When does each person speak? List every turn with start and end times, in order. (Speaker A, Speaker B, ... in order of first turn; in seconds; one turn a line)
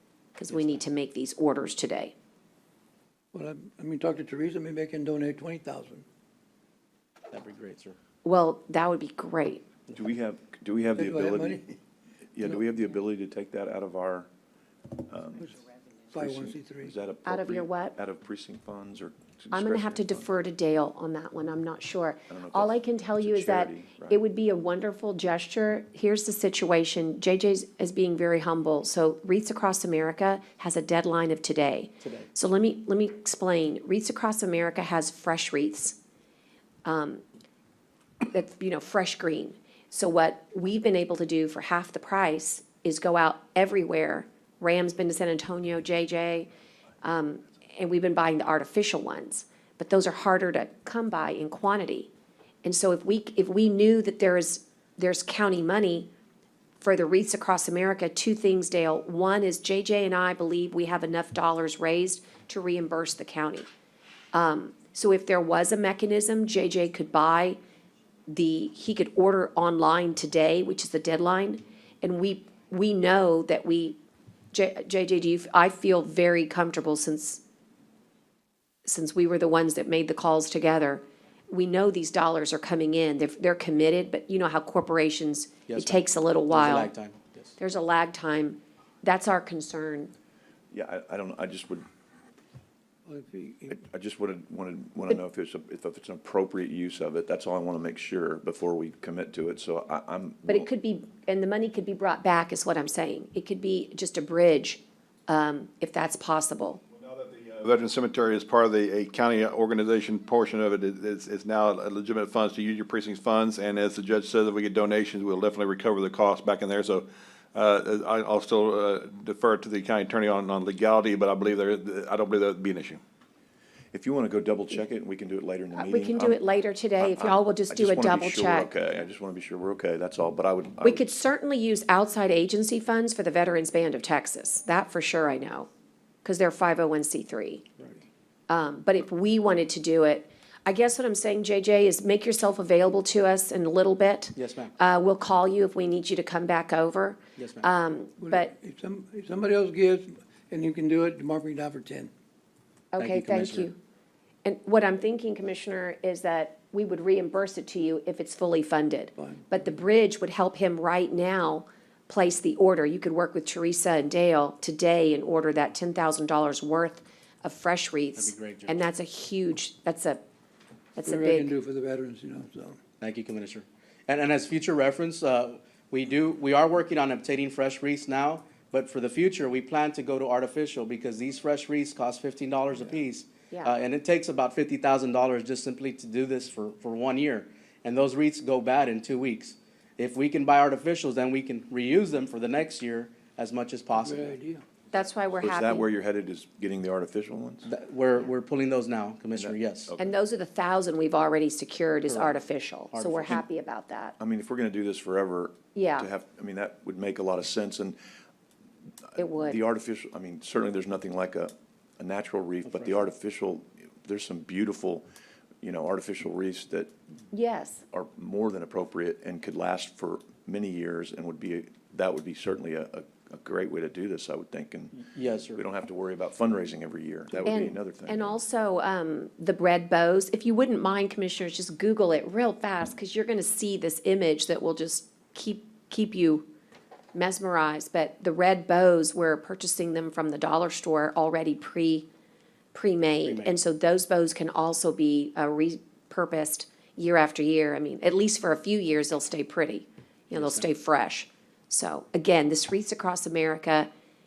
Speaker A: 0.4-2.1
Speaker B: 3.3-6.0
Speaker C: 7.3-8.0
Speaker A: 8.2-9.6
Speaker D: 9.9-11.6
Speaker B: 10.9-11.7
Speaker D: 12.3-14.3
Speaker D: 14.9-15.5
Speaker B: 16.1-16.9
Speaker D: 16.1-20.2
Speaker A: 17.2-17.9
Speaker A: 19.5-36.0
Speaker D: 22.3-24.2
Speaker C: 32.0-32.3
Speaker A: 36.8-37.2
Speaker A: 38.3-46.5
Speaker A: 47.0-52.1
Speaker A: 52.6-56.1
Speaker A: 56.8-63.7
Speaker A: 64.3-67.6
Speaker A: 68.3-74.0
Speaker A: 74.5-77.4
Speaker A: 78.8-86.9
Speaker C: 85.7-87.5
Speaker A: 87.6-90.1
Speaker D: 90.7-91.8
Speaker B: 93.0-93.8
Speaker D: 93.7-100.7
Speaker A: 100.5-106.8
Speaker E: 106.9-123.0
Speaker D: 123.9-126.4
Speaker A: 125.7-128.7
Speaker D: 127.0-131.1
Speaker A: 130.8-135.7
Speaker A: 136.2-137.6
Speaker A: 138.5-148.5
Speaker C: 144.3-144.7
Speaker C: 147.4-147.7
Speaker B: 148.2-152.1
Speaker A: 152.9-153.8
Speaker C: 153.0-153.7
Speaker A: 154.4-170.2
Speaker B: 159.2-159.6
Speaker C: 168.2-168.8
Speaker A: 170.9-171.5
Speaker B: 171.0-172.8
Speaker C: 173.0-194.4
Speaker B: 194.0-194.6
Speaker A: 194.9-195.8
Speaker D: 195.4-197.7
Speaker C: 197.7-199.9
Speaker D: 199.3-200.1
Speaker A: 200.0-204.2
Speaker C: 202.1-203.4
Speaker D: 204.2-208.0
Speaker A: 205.7-206.1
Speaker D: 209.1-215.1
Speaker A: 209.2-209.6
Speaker C: 212.6-213.1
Speaker D: 215.6-216.9
Speaker A: 217.3-217.8
Speaker D: 217.9-225.0
Speaker C: 225.0-225.6
Speaker D: 225.5-228.3
Speaker A: 227.4-236.5
Speaker A: 237.1-242.1
Speaker A: 242.7-253.9
Speaker C: 243.2-243.5
Speaker C: 250.3-250.7